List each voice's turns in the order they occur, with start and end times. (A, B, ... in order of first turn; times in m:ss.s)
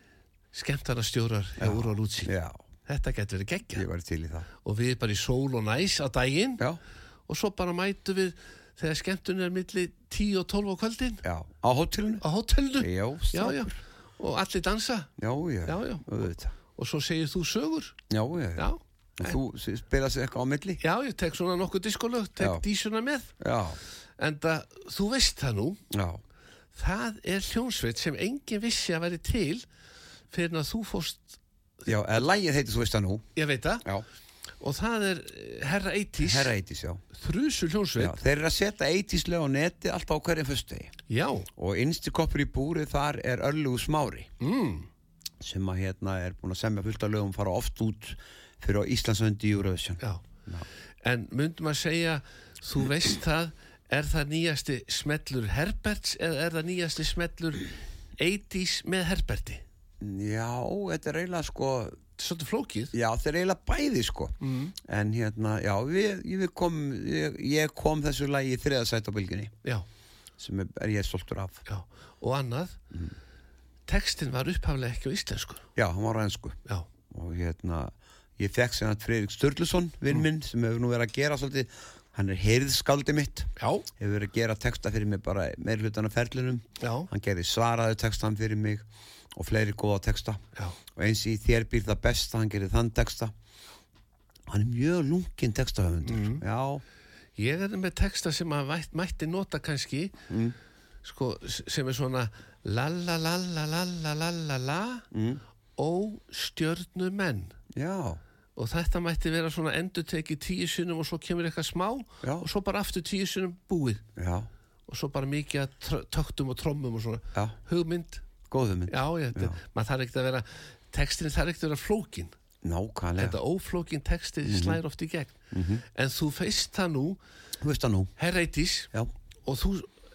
0:00.5-0:02.3 A
0:01.6-0:02.6 B
0:02.8-0:03.8 A
0:03.7-0:04.5 B
0:04.6-0:06.6 A
0:07.3-0:11.2 A
0:11.2-0:12.2 B
0:12.2-0:15.1 A
0:12.8-0:13.8 B
0:15.2-0:16.5 B
0:15.6-0:18.0 A
0:18.1-0:20.8 B
0:18.6-0:19.4 A
0:20.8-0:23.3 A
0:22.4-0:22.6 B
0:23.4-0:23.8 B
0:24.2-0:25.8 A
0:25.9-0:26.2 B
0:26.7-0:29.6 A
0:30.3-0:31.4 A
0:31.8-0:33.2 B
0:33.4-0:33.8 A
0:34.6-0:36.5 A
0:36.2-0:37.0 B
0:37.1-0:38.2 A
0:38.0-0:40.9 B
0:41.1-0:41.5 A
0:41.6-0:44.3 B
0:44.4-0:44.9 A
0:45.4-0:50.6 B
0:51.0-0:59.6 A
1:00.0-1:02.0 B
1:02.2-1:02.9 A
1:02.9-1:09.5 B
1:04.4-1:04.7 A
1:10.4-1:11.6 B
1:11.6-1:12.8 A
1:13.9-1:15.6 A
1:15.8-1:16.6 B
1:17.1-1:30.4 B
1:23.6-1:23.8 A
1:26.8-1:27.1 A
1:30.9-1:33.3 B
1:34.5-1:36.8 B
1:36.0-1:36.4 A
1:37.4-1:40.2 A
1:40.3-1:40.6 B
1:41.0-1:45.0 A
1:45.1-1:45.4 B
1:45.8-1:47.5 A
1:47.7-1:48.2 B
1:48.6-1:54.0 A
1:52.2-1:52.5 B
1:54.2-1:54.5 B
1:54.9-1:58.2 A
1:58.5-1:59.6 B
1:58.9-2:02.3 A
2:02.6-2:03.4 B
2:03.2-2:05.4 A
2:04.4-2:04.8 B
2:05.5-2:05.8 B
2:05.9-2:07.2 A
2:07.6-2:08.1 B
2:08.2-2:08.9 A
2:09.4-2:09.9 A